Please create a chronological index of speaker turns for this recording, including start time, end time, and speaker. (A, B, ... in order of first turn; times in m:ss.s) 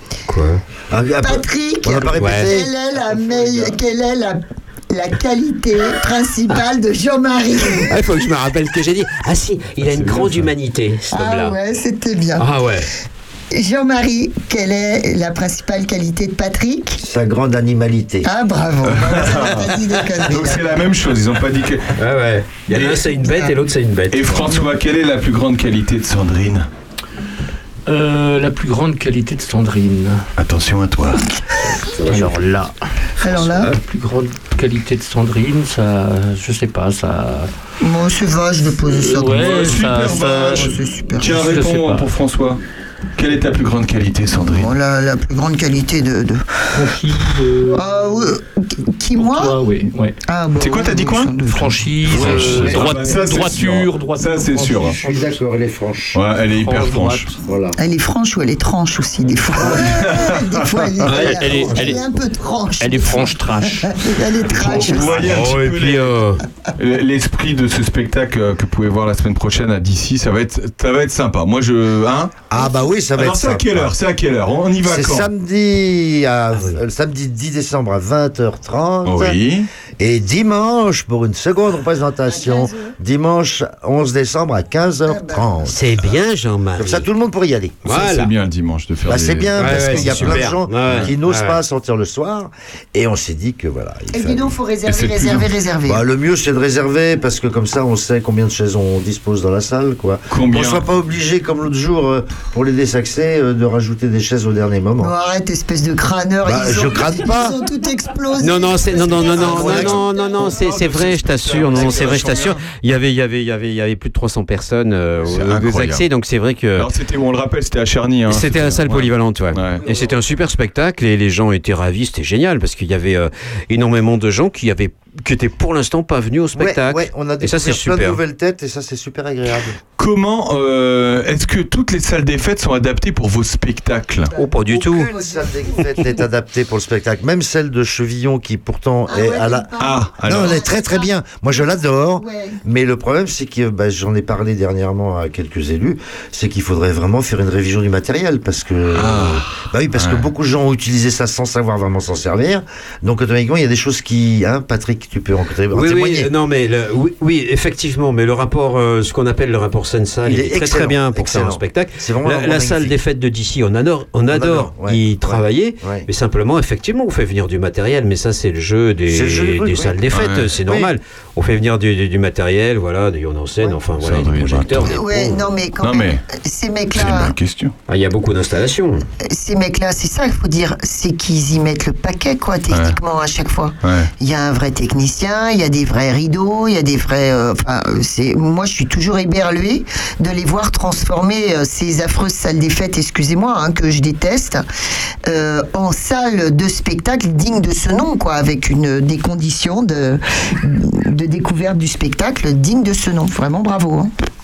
0:00.3-0:00.6 A
0:00.9-0:02.7 B
0:01.2-0:08.0 C
0:02.1-0:02.6 A
0:07.8-0:11.6 A
0:09.8-0:10.5 D
0:11.1-0:12.4 C
0:12.4-0:12.9 A
0:13.5-0:17.0 C
0:17.0-0:18.3 B
0:18.2-0:20.6 C
0:18.8-0:19.8 D
0:20.3-0:21.9 D
0:22.0-0:24.6 A
0:22.7-0:23.2 D
0:24.1-0:26.7 D
0:27.9-0:30.2 E
0:30.4-0:31.3 D
0:32.0-0:32.4 A
0:32.1-0:32.7 E
0:33.2-0:33.7 C
0:33.3-0:37.5 E
0:37.8-0:39.5 C
0:38.9-0:40.7 E
0:39.4-0:42.6 D
0:40.1-0:41.4 C
0:41.3-0:42.1 E
0:43.2-0:44.7 D
0:44.5-0:46.8 C
0:46.7-0:47.8 E
0:47.7-0:49.6 C
0:49.2-0:50.1 E
0:50.3-0:51.9 C
0:50.6-0:51.4 D
0:51.5-0:55.4 E
0:52.0-0:55.0 D
0:52.2-0:52.9 B
0:55.0-0:56.2 B
0:56.1-0:57.3 D
0:56.6-0:57.3 E
0:57.4-0:57.8 B
0:57.8-1:05.3 C
0:59.6-1:01.1 D
1:01.2-1:02.0 E
1:01.5-1:01.9 B
1:02.8-1:03.9 E
1:04.5-1:06.2 D
1:04.7-1:06.4 A
1:06.8-1:12.3 D
1:12.5-1:13.9 B
1:13.2-1:15.3 D
1:14.8-1:19.4 B
1:16.5-1:16.8 A
1:19.0-1:19.7 D
1:20.0-1:26.0 B
1:22.3-1:22.9 C
1:25.1-1:25.6 C
1:25.6-1:27.1 A
1:26.7-1:27.9 B
1:27.8-1:28.3 A
1:27.9-1:31.1 D
1:29.1-1:34.5 B
1:29.5-1:31.6 A
1:34.1-1:36.0 C
1:34.9-1:35.5 D
1:35.9-1:45.1 B
1:40.3-1:40.8 D
1:45.0-1:50.6 C
1:46.4-1:47.6 B
1:48.4-1:56.9 A
1:49.2-1:52.7 D
1:55.2-1:56.1 D
1:56.8-1:59.9 D
1:58.3-2:08.2 A
2:06.6-2:09.8 B
2:10.0-2:14.3 D
2:14.3-2:15.8 C
2:14.4-2:15.1 A
2:14.7-2:36.3 B
2:19.1-2:22.6 C
2:19.8-2:20.6 D
2:28.9-2:30.3 D
2:35.7-2:55.4 A
2:40.2-2:43.0 B
2:44.3-2:46.1 B
2:49.1-2:50.0 B
2:50.1-2:50.6 D
2:50.6-2:50.9 B
2:54.0-2:55.0 D
2:54.9-2:57.3 C
2:55.8-2:56.2 D
2:56.9-2:57.8 D
2:57.9-2:59.0 A
2:59.2-3:14.6 C
3:02.7-3:03.0 D
3:03.8-3:04.1 D
3:15.3-3:24.1 C